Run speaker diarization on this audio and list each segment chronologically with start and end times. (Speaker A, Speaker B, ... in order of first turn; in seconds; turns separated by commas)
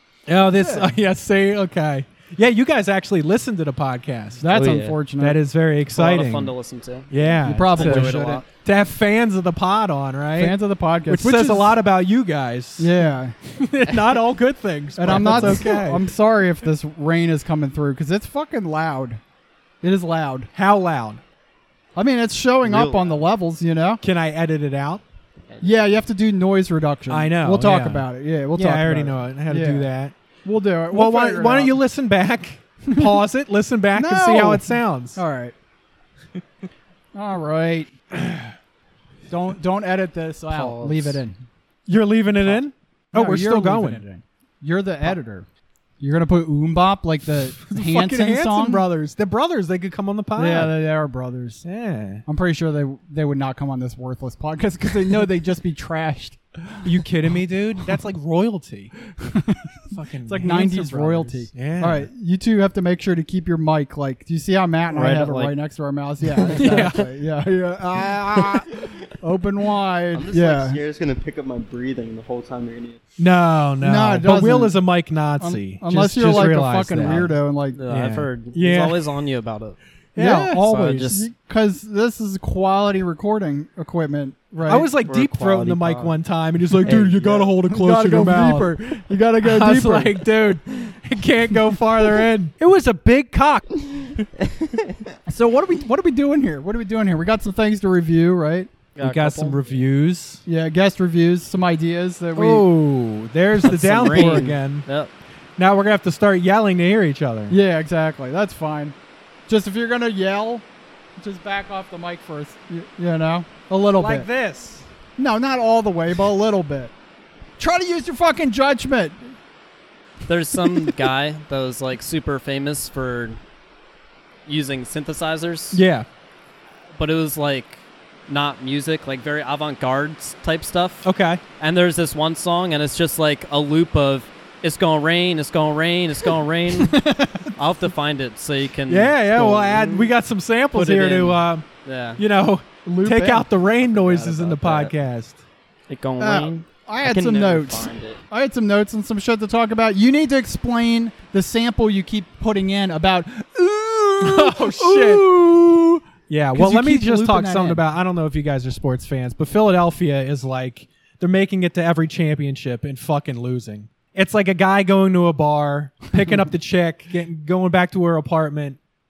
Speaker A: 0.3-4.4, Speaker B: 0.5-1.0, Speaker B: 4.4-5.4, Speaker C: 4.5-5.0, Speaker A: 5.2-6.5, Speaker D: 5.9-7.1, Speaker A: 7.1-12.9, Speaker B: 7.4-8.4, Speaker D: 7.7-8.4, Speaker B: 10.4-11.8, Speaker B: 12.8-13.4, Speaker A: 13.6-16.1, Speaker B: 15.0-19.2, Speaker B: 19.8-20.5, Speaker A: 20.5-21.2, Speaker B: 22.0-24.0, Speaker D: 22.7-23.2, Speaker A: 24.0-25.0, Speaker B: 25.6-29.9, Speaker A: 27.1-30.1, Speaker B: 30.4-31.8, Speaker A: 30.9-35.2, Speaker B: 32.9-33.2, Speaker B: 33.9-35.5, Speaker B: 37.1-37.9, Speaker A: 38.2-38.5, Speaker B: 39.3-41.4, Speaker D: 40.5-41.2, Speaker A: 41.9-44.0, Speaker B: 42.4-45.5, Speaker B: 46.0-48.9, Speaker A: 47.6-50.8, Speaker B: 50.3-51.6, Speaker A: 51.6-52.2, Speaker B: 52.2-56.9, Speaker A: 56.8-58.9, Speaker B: 59.2-59.7, Speaker A: 59.9-62.1, Speaker B: 60.2-70.8, Speaker D: 64.9-65.5, Speaker A: 66.5-67.1, Speaker C: 70.1-73.0, Speaker A: 73.2-77.3, Speaker B: 73.8-74.8, Speaker B: 75.4-77.8, Speaker D: 77.7-79.8, Speaker A: 77.9-79.0, Speaker A: 80.2-81.1, Speaker B: 80.2-84.9, Speaker D: 80.6-81.2, Speaker A: 84.7-94.2, Speaker C: 85.0-86.2, Speaker C: 86.8-87.5, Speaker B: 87.6-90.2, Speaker B: 95.3-98.7, Speaker D: 99.0-99.7, Speaker A: 99.0-100.4, Speaker B: 100.5-102.7, Speaker A: 102.4-104.9, Speaker D: 103.6-105.1, Speaker B: 103.9-104.6, Speaker A: 105.6-107.6, Speaker B: 107.5-108.9, Speaker B: 109.5-110.6, Speaker B: 111.2-114.3, Speaker A: 113.9-114.9, Speaker B: 115.2-116.9, Speaker B: 117.6-119.3, Speaker D: 120.2-123.4, Speaker D: 124.5-125.8, Speaker A: 125.7-126.1, Speaker D: 127.0-139.9, Speaker A: 131.0-131.4, Speaker B: 136.7-137.5, Speaker A: 138.9-141.6, Speaker C: 139.7-140.1, Speaker D: 140.7-142.2, Speaker A: 142.2-145.4, Speaker B: 142.8-143.5, Speaker D: 143.8-144.9, Speaker D: 145.9-146.6, Speaker B: 146.2-157.8, Speaker C: 147.0-148.2, Speaker A: 154.2-155.3, Speaker A: 156.3-168.8